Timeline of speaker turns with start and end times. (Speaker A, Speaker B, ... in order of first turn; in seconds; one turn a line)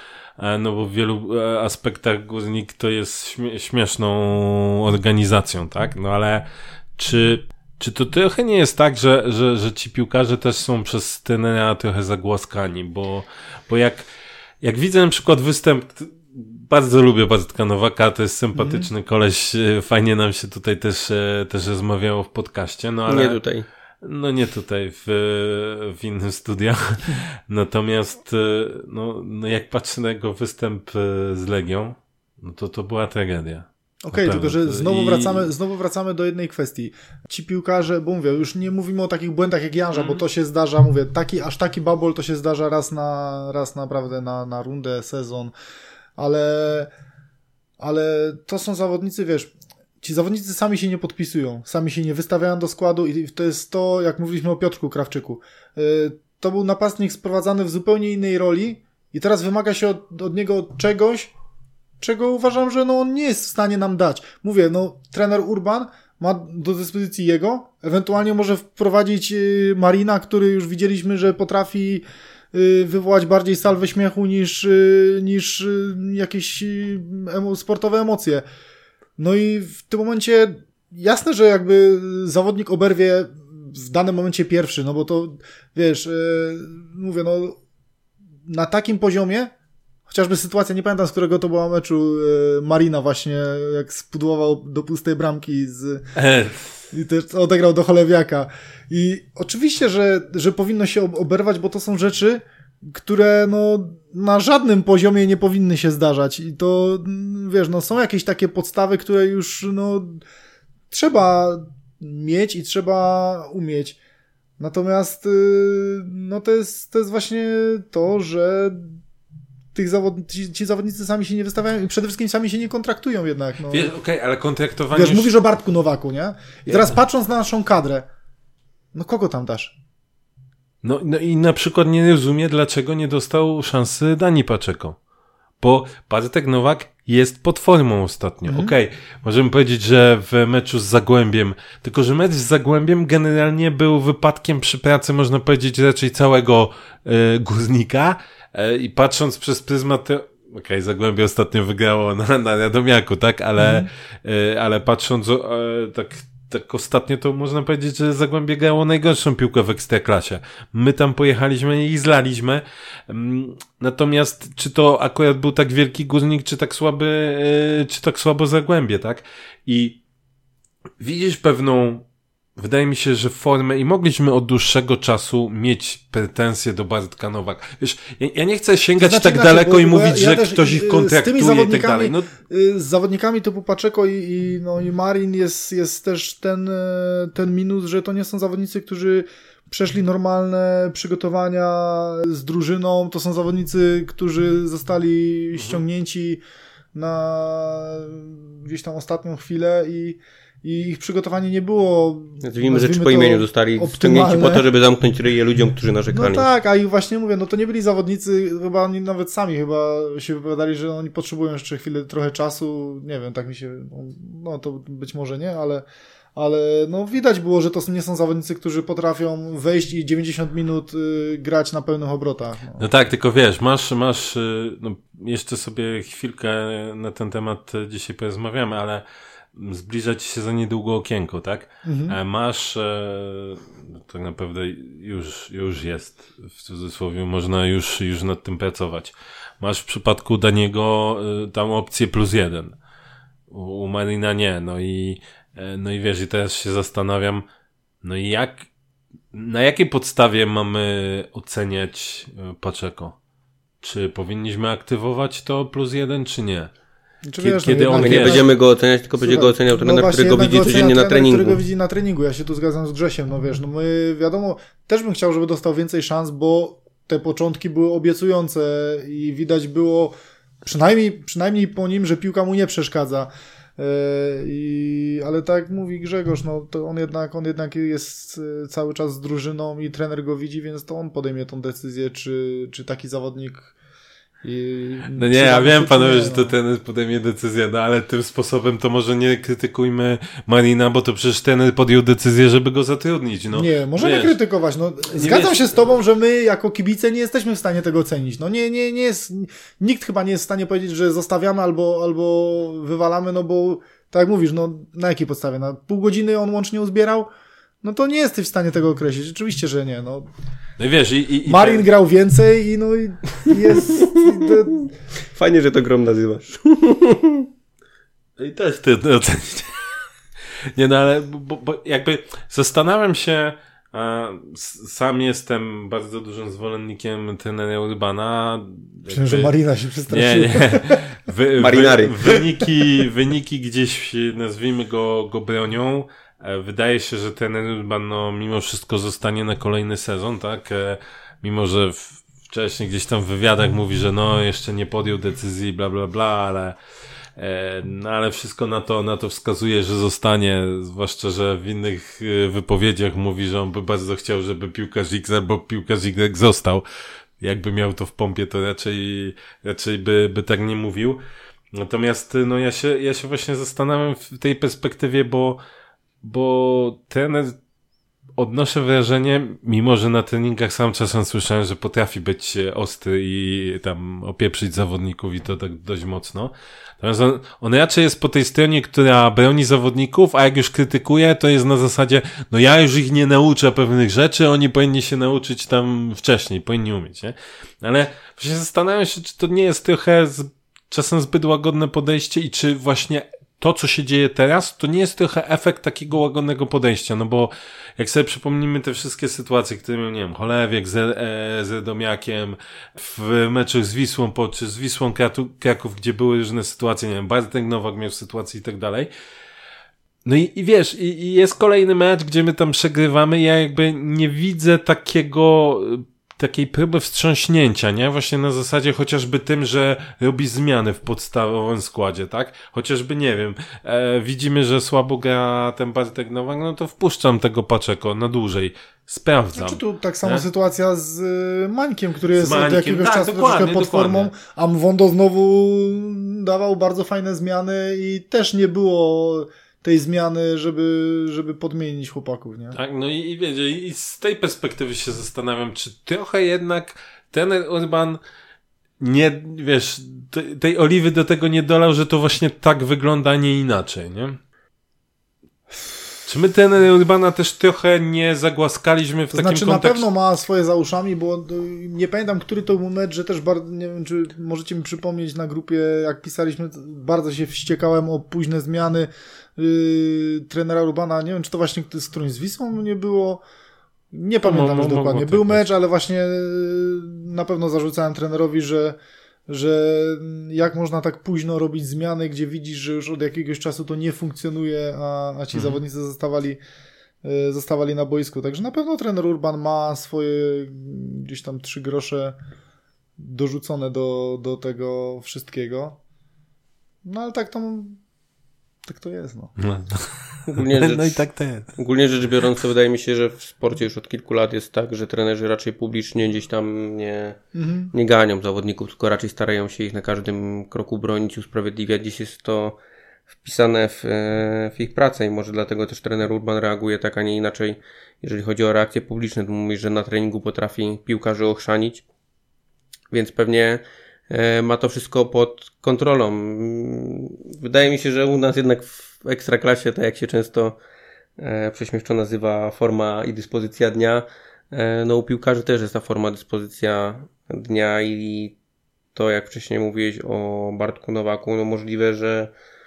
Speaker A: 0.4-14.1
Speaker A: 14.6-23.4
Speaker B: 18.5-18.9
Speaker C: 23.1-23.7
Speaker A: 24.0-35.5
Speaker B: 34.0-45.5
Speaker A: 39.9-40.2
Speaker B: 46.2-46.9
Speaker B: 47.8-61.3
Speaker B: 62.0-78.4
Speaker B: 79.2-87.6
Speaker B: 88.5-89.5
Speaker B: 90.1-96.1
Speaker A: 96.2-96.7
Speaker B: 96.9-110.2
Speaker B: 110.9-114.0
Speaker B: 114.6-119.0
Speaker B: 119.7-123.9
Speaker A: 123.7-125.3
Speaker B: 124.9-128.1
Speaker B: 128.9-129.7
Speaker A: 130.8-135.0
Speaker A: 135.6-170.0
Speaker B: 138.4-138.7
Speaker B: 153.6-153.9
Speaker A: 171.0-182.3
Speaker B: 179.0-196.4
Speaker B: 196.9-204.7
Speaker C: 202.4-206.5
Speaker B: 206.1-222.8
Speaker A: 222.8-242.8
Speaker B: 231.8-232.2
Speaker A: 243.5-247.4
Speaker A: 248.0-248.7
Speaker A: 249.3-253.2
Speaker A: 253.8-256.7
Speaker B: 257.2-258.5
Speaker A: 257.4-258.4
Speaker C: 257.9-261.6
Speaker B: 259.2-283.7
Speaker B: 284.4-286.5
Speaker A: 285.1-294.3
Speaker B: 293.5-307.3
Speaker A: 295.1-295.7
Speaker B: 307.8-310.3
Speaker A: 310.8-311.9
Speaker B: 311.4-314.9
Speaker C: 313.8-317.5
Speaker A: 318.4-320.1
Speaker A: 320.7-329.5
Speaker B: 329.1-331.1
Speaker A: 330.1-346.8
Speaker C: 331.6-332.2
Speaker B: 332.2-332.7
Speaker A: 347.4-356.8
Speaker A: 357.4-361.2
Speaker A: 361.7-365.6
Speaker A: 366.2-367.6
Speaker A: 368.4-409.1
Speaker A: 410.2-430.4
Speaker B: 429.5-442.8
Speaker A: 432.3-434.3
Speaker A: 442.7-448.2
Speaker A: 449.0-454.4
Speaker A: 456.2-460.0
Speaker B: 459.3-473.4
Speaker B: 474.1-479.0
Speaker A: 474.4-475.7
Speaker B: 479.5-486.6
Speaker B: 487.2-492.4
Speaker B: 493.2-496.0
Speaker B: 497.0-498.0
Speaker B: 498.8-499.5
Speaker A: 499.6-501.7
Speaker C: 500.5-501.2
Speaker C: 501.8-507.4
Speaker B: 507.5-507.9
Speaker C: 507.9-512.8
Speaker C: 513.4-522.0
Speaker C: 523.1-530.8
Speaker C: 531.4-538.5
Speaker C: 539.1-542.5